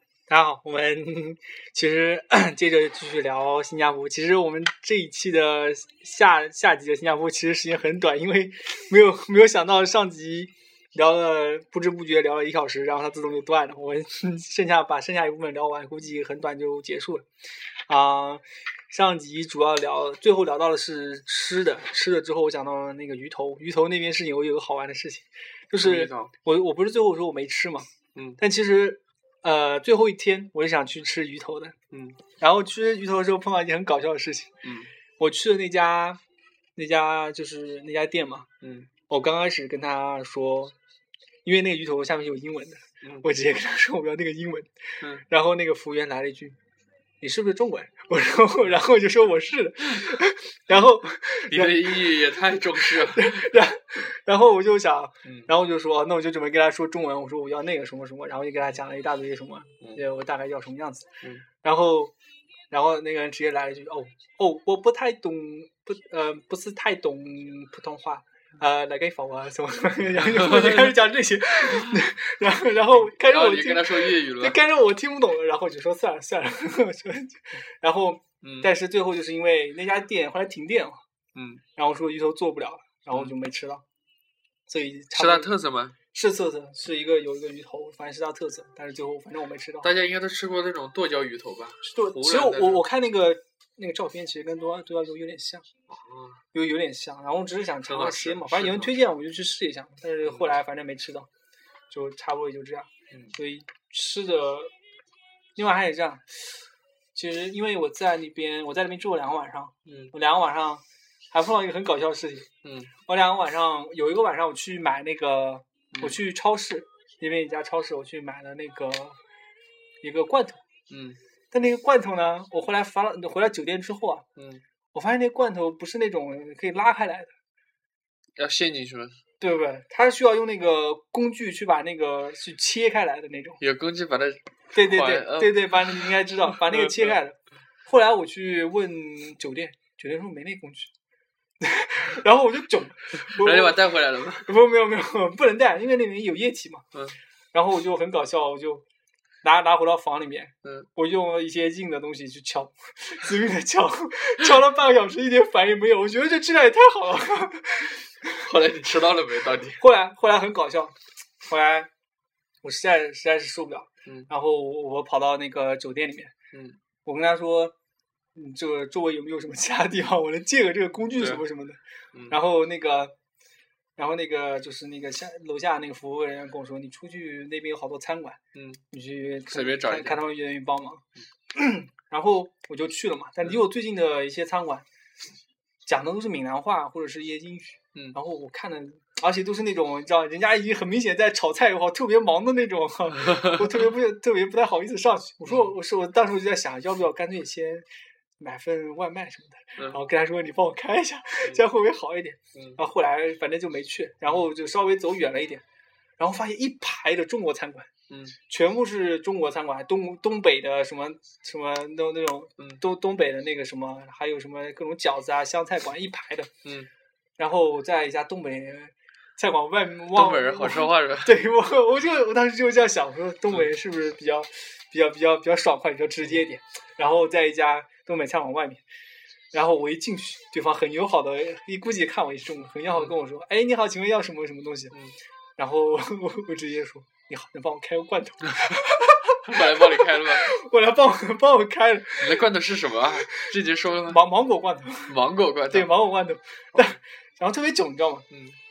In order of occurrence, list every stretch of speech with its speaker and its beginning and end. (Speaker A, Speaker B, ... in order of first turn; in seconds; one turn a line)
Speaker A: 0.3-17.2
Speaker A: 17.9-31.8
Speaker B: 25.8-26.3
Speaker B: 28.1-28.4
Speaker B: 31.9-32.2
Speaker A: 32.4-34.5
Speaker B: 34.6-34.9
Speaker A: 35.2-36.2
Speaker A: 36.8-38.5
Speaker B: 38.6-38.9
Speaker A: 39.1-40.8
Speaker A: 41.5-46.6
Speaker B: 43.0-43.3
Speaker A: 47.2-62.1
Speaker B: 51.5-53.6
Speaker B: 55.2-55.5
Speaker A: 62.7-81.0
Speaker B: 70.2-71.0
Speaker B: 71.6-72.0
Speaker B: 73.0-74.6
Speaker B: 78.4-78.7
Speaker B: 81.3-81.6
Speaker A: 81.8-83.8
Speaker A: 84.7-85.5
Speaker B: 85.1-86.0
Speaker A: 86.1-89.9
Speaker B: 89.8-92.8
Speaker A: 91.8-95.7
Speaker B: 95.9-96.4
Speaker A: 96.5-101.3
Speaker B: 97.9-98.9
Speaker B: 100.2-100.5
Speaker A: 101.9-104.7
Speaker A: 105.6-106.5
Speaker A: 107.1-112.5
Speaker B: 109.9-110.1
Speaker B: 112.6-112.9
Speaker A: 113.1-119.2
Speaker A: 120.0-120.6
Speaker B: 120.9-121.2
Speaker A: 121.5-124.2
Speaker B: 124.4-124.6
Speaker A: 124.9-127.3
Speaker B: 128.4-129.2
Speaker A: 129.4-133.6
Speaker B: 133.6-137.2
Speaker A: 134.7-140.9
Speaker A: 141.6-146.9
Speaker B: 143.2-144.5
Speaker A: 147.5-148.8
Speaker A: 149.4-158.5
Speaker B: 158.4-159.8
Speaker A: 159.8-161.9
Speaker A: 162.6-166.3
Speaker B: 166.5-166.8
Speaker A: 167.1-167.8
Speaker A: 168.3-173.2
Speaker B: 171.2-171.4
Speaker A: 174.0-178.4
Speaker B: 178.6-178.8
Speaker A: 178.9-184.9
Speaker B: 179.5-180.2
Speaker A: 185.9-197.9
Speaker A: 198.4-205.6
Speaker B: 202.6-202.8
Speaker A: 206.2-207.9
Speaker B: 208.1-208.4
Speaker A: 208.5-216.5
Speaker B: 216.6-216.9
Speaker A: 217.4-228.8
Speaker B: 220.1-221.4
Speaker A: 229.5-234.9
Speaker A: 235.6-242.4
Speaker B: 239.5-240.5
Speaker B: 242.2-244.2
Speaker A: 244.1-245.2
Speaker B: 245.1-245.9
Speaker A: 245.7-248.3
Speaker B: 248.3-248.6